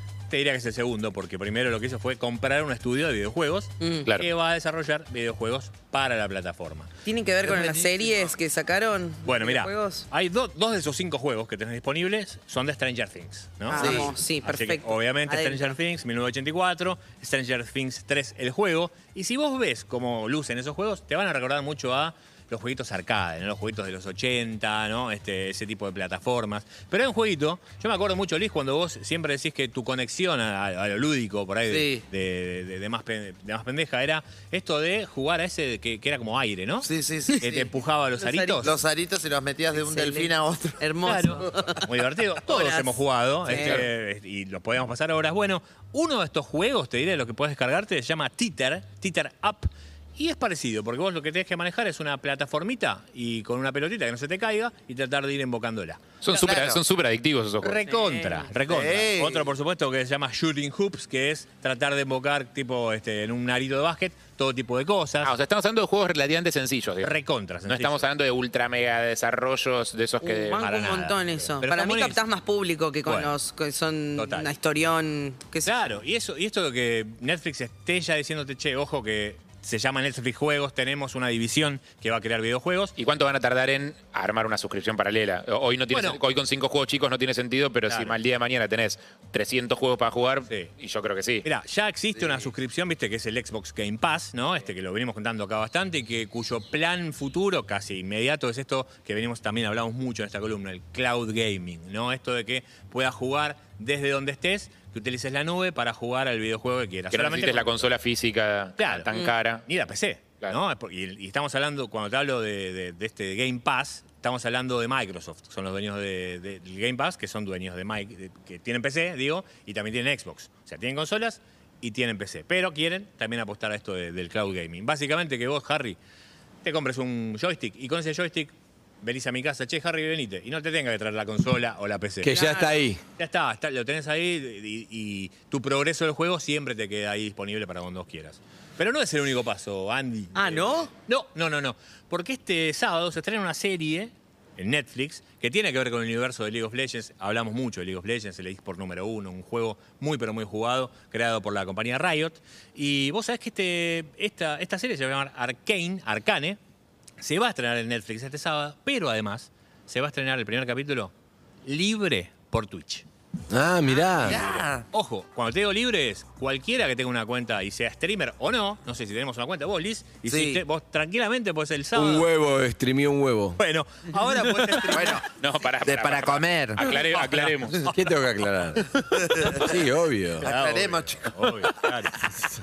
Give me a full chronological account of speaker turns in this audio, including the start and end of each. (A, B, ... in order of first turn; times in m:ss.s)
0:00.3-0:07.6 A
0:03.8-0:04.1 B
0:07.0-0:10.1 B
0:07.4-0:08.4 C
0:09.2-0:36.9 A
0:13.7-0:15.7 B
0:13.7-0:14.1 C
0:31.7-0:32.0 C
0:36.8-0:37.7 C
0:37.4-0:38.7 A
0:38.2-0:38.7 B
0:38.6-0:41.6 C
0:39.7-0:41.9 B
0:41.0-0:56.0 A
0:42.4-0:43.9 B
0:56.2-0:58.3 D
0:56.3-0:56.8 C
0:57.6-1:05.3 A
0:58.7-0:59.5 C
1:05.2-1:10.6 D
1:07.0-1:08.1 A
1:10.2-1:15.8 B
1:10.6-1:12.2 A
1:13.0-1:13.4 A
1:14.2-1:14.5 A
1:15.6-1:23.0 A
1:23.0-1:31.5 D
1:25.9-1:26.2 A
1:27.9-1:28.2 A
1:31.4-1:47.9 A
1:47.1-1:49.7 D
1:48.8-1:49.1 A
1:49.1-1:49.4 B
1:49.7-2:06.0 A
2:06.6-2:12.4 A
2:12.2-2:13.0 E
2:12.3-2:12.8 B
2:13.2-2:36.6 A
2:20.4-2:20.9 B
2:37.2-2:41.1 A
2:41.6-2:43.1 A
2:43.5-2:44.4 E
2:43.9-2:44.8 C
2:44.2-2:52.3 A
2:50.3-2:50.6 C
2:51.9-2:53.6 E
2:53.6-2:55.2 A
2:54.5-2:57.8 D
2:54.7-2:57.0 C
2:56.9-2:57.6 A
2:57.9-3:00.5 E
2:59.0-2:59.6 C
3:00.4-3:01.2 C
3:00.4-3:02.3 A